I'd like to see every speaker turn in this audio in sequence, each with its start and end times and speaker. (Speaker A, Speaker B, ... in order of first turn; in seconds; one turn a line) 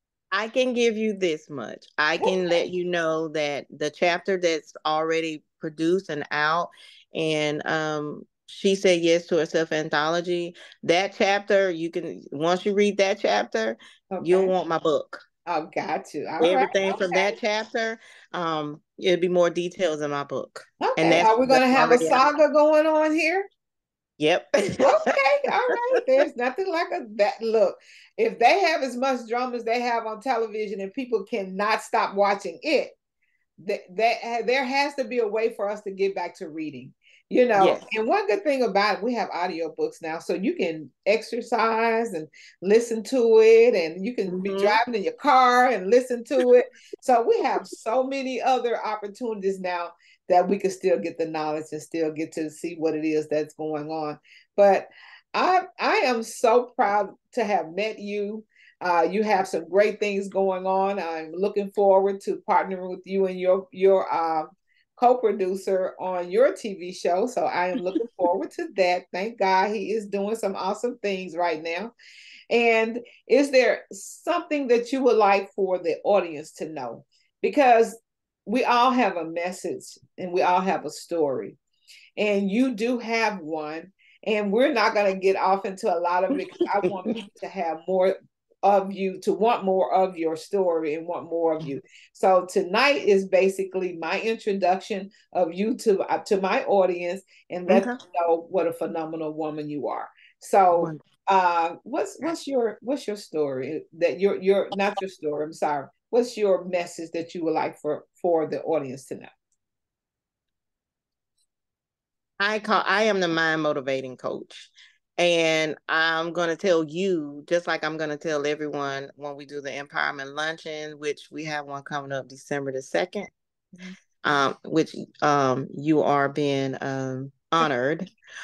Speaker A: 0.3-15.2
Speaker B: 2.2-2.6
Speaker B: 14.1-14.5
Speaker B: 15.5-17.4
Speaker A: 16.4-22.2
Speaker B: 20.8-23.5
Speaker A: 24.2-25.0
Speaker B: 24.8-33.0
Speaker B: 33.6-71.9
Speaker A: 37.6-37.9
Speaker A: 44.3-44.8
Speaker B: 72.5-81.6
Speaker B: 82.2-109.3
Speaker A: 97.7-98.0
Speaker A: 100.7-101.0
Speaker A: 112.4-123.3
Speaker A: 124.2-128.1